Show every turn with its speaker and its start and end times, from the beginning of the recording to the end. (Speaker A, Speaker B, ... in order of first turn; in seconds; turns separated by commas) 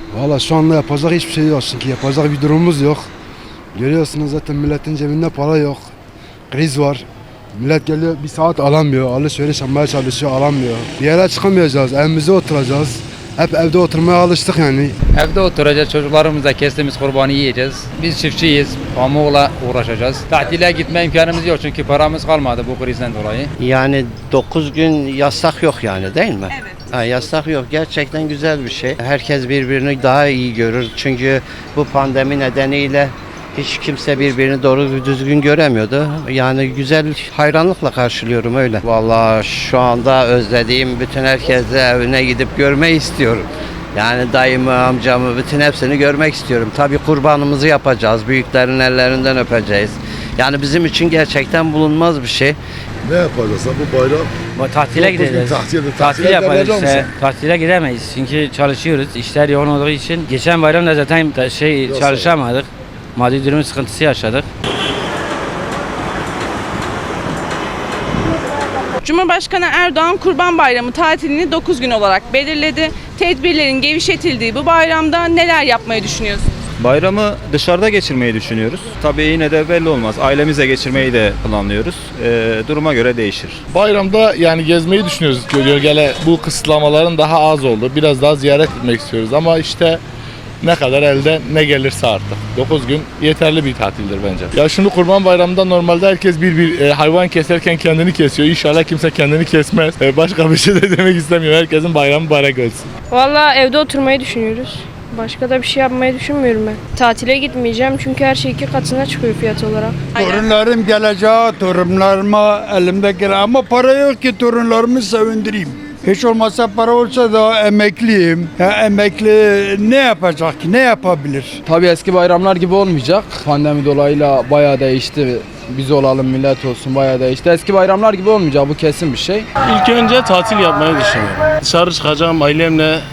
Speaker A: 0.1-3.0, Speaker A: 3.7-5.9, Speaker A: 6.5-7.0, Speaker A: 7.5-15.0, Speaker B: 15.1-23.5, Speaker C: 23.6-52.6, Speaker D: 53.0-54.3, Speaker E: 54.5-64.5, Speaker D: 54.9-57.1, Speaker D: 61.8-62.4, Speaker F: 69.0-76.5, Speaker G: 76.8-83.6, Speaker H: 83.7-90.0, Speaker H: 90.6-102.9, Speaker I: 103.1-110.0, Speaker F: 110.1-110.5, Speaker J: 110.2-121.6, Speaker K: 121.7-129.5